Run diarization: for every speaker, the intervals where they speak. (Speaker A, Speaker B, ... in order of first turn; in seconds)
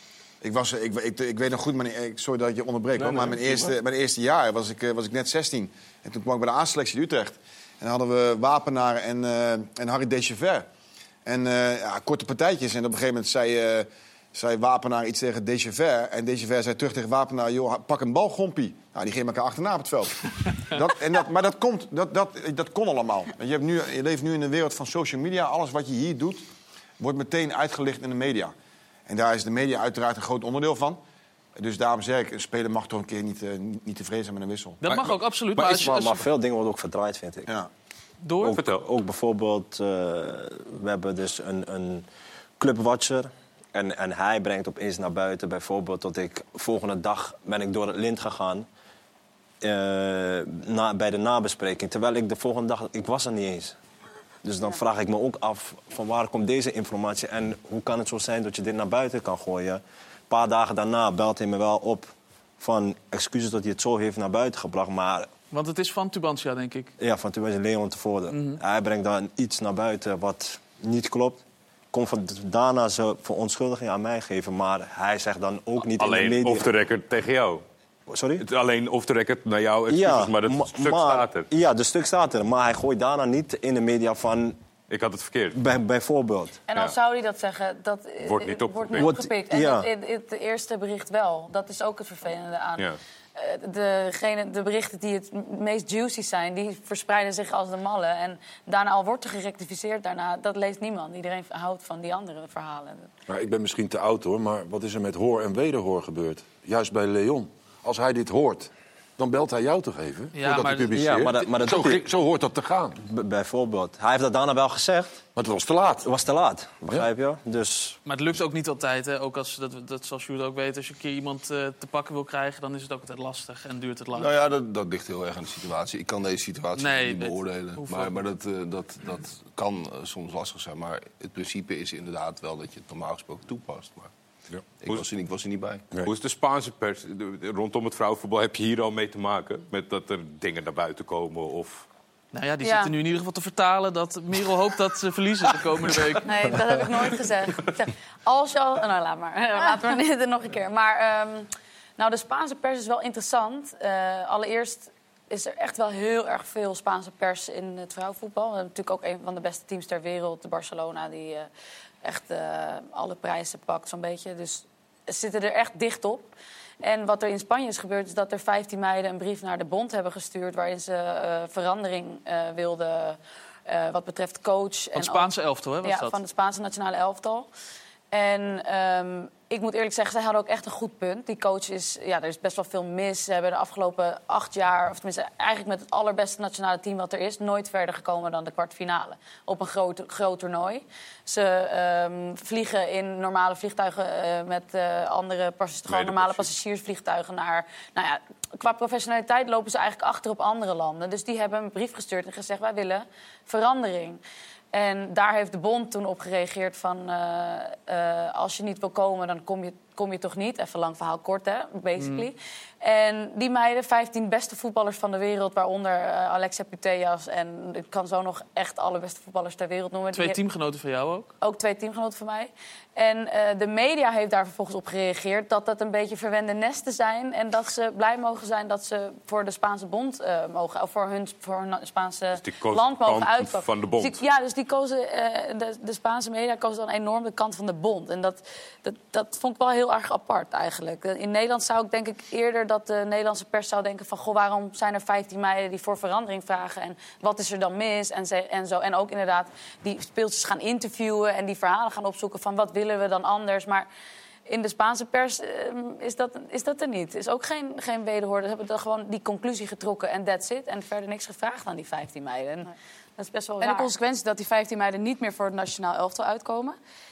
Speaker A: 0.4-10.7, 11.2-26.4, 27.0-28.5, 29.1-31.0, 31.6-34.8
Speaker B: 3.0-3.7, 124.1-134.1, 134.8-135.9
Speaker C: 34.8-36.2, 38.2-38.6, 65.5-66.9, 68.3-68.6, 110.3-111.4, 118.0-124.3, 126.8-128.2, 142.3-146.5, 174.9-176.2, 212.0-212.3, 220.1-221.3
Speaker D: 35.5-37.5, 38.4-42.1, 42.6-48.7, 49.6-53.8, 54.4-65.3, 67.0-71.4, 71.9-76.7, 78.1-78.5, 79.9-84.6, 85.5-86.6, 89.0-89.9, 110.9-112.0, 113.0-115.2, 116.0-118.0
Speaker E: 38.5-38.9, 75.9-77.6, 78.4-81.5, 84.9-85.6, 88.2-89.1, 136.0-141.9, 195.9-196.5, 232.4-234.2
Speaker F: 86.7-103.1, 142.6-142.9, 146.2-161.5, 162.0-166.3, 166.8-175.3, 175.8-177.5, 178.1-204.2, 204.7-220.4, 221.4-253.9, 254.5-263.9
Speaker G: 103.3-113.0, 115.4-116.1
Speaker H: 263.6-266.8